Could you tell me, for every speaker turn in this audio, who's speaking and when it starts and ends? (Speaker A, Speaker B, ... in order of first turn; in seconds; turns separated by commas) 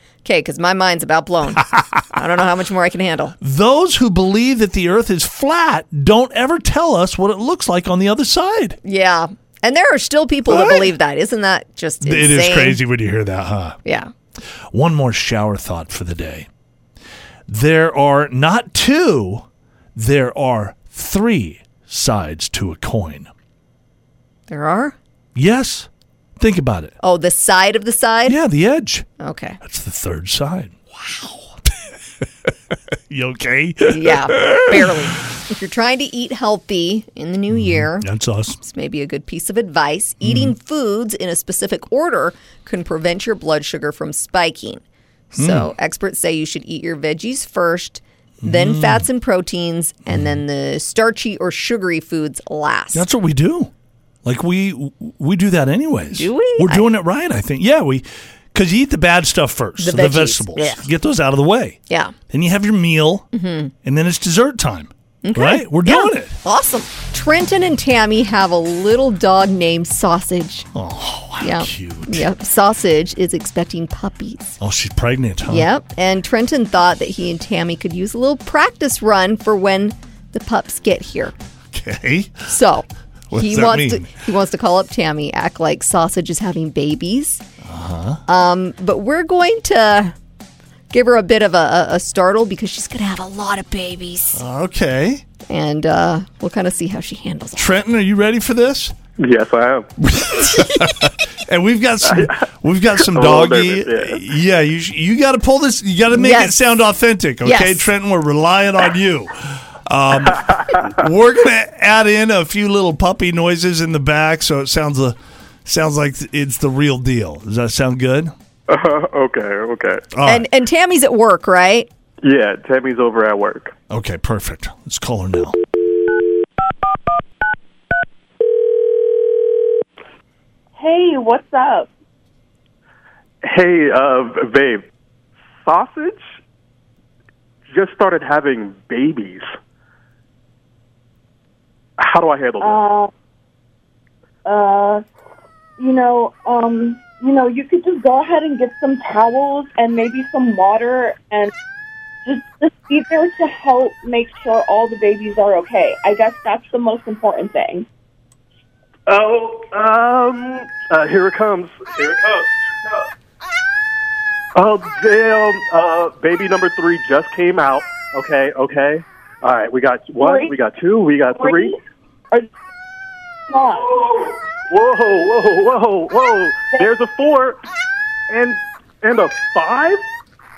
Speaker A: 0.2-3.3, Speaker B: 1.6-2.0, Speaker B: 3.4-8.8, Speaker A: 8.8-12.8, Speaker B: 10.5-10.9, Speaker B: 12.0-13.8, Speaker A: 13.8-14.1, Speaker B: 14.7-16.5, Speaker B: 17.5-23.3, Speaker A: 24.5-24.9, Speaker B: 25.3-26.9, Speaker A: 27.0-28.4, Speaker B: 28.2-29.1, Speaker A: 29.2-29.6, Speaker B: 29.6-30.8, Speaker A: 31.1-31.3, Speaker B: 31.6-35.1, Speaker A: 33.9-53.1, Speaker B: 37.5-38.6, Speaker B: 40.2-40.5, Speaker B: 45.3-45.7, Speaker B: 48.4-49.0, Speaker B: 50.1-50.4, Speaker B: 52.9-53.7, Speaker B: 54.2-63.3, Speaker A: 56.1-56.9, Speaker A: 59.8-60.9, Speaker A: 61.9-62.1, Speaker A: 63.3-63.7, Speaker B: 63.8-66.4, Speaker A: 65.2-70.7, Speaker B: 70.7-72.3, Speaker A: 71.4-74.6, Speaker B: 74.6-75.7, Speaker A: 75.5-81.3, Speaker B: 81.7-82.5, Speaker A: 82.5-87.4, Speaker B: 83.3-84.1, Speaker B: 87.6-88.2, Speaker A: 88.3-90.1, Speaker A: 90.9-94.4, Speaker B: 94.3-95.2, Speaker A: 95.5-97.7, Speaker B: 97.6-99.0, Speaker C: 99.2-99.9, Speaker B: 100.0-118.3, Speaker C: 102.1-102.4, Speaker C: 103.0-104.2, Speaker A: 106.1-106.7, Speaker A: 107.4-107.9, Speaker C: 110.4-110.9, Speaker C: 118.7-120.1, Speaker B: 120.1-120.4, Speaker A: 120.2-121.9, Speaker C: 122.2-123.7, Speaker B: 123.9-125.6, Speaker D: 130.8-131.9, Speaker C: 133.4-134.8, Speaker C: 135.6-136.2, Speaker C: 137.7-139.5, Speaker C: 142.0-142.8, Speaker D: 142.6-143.1, Speaker D: 144.4-145.0, Speaker D: 145.8-151.5, Speaker D: 152.2-157.9, Speaker C: 159.1-163.1, Speaker C: 164.5-171.8, Speaker D: 170.2-170.5, Speaker D: 171.3-171.8, Speaker D: 173.5-173.9, Speaker C: 173.8-177.6, Speaker C: 178.3-180.0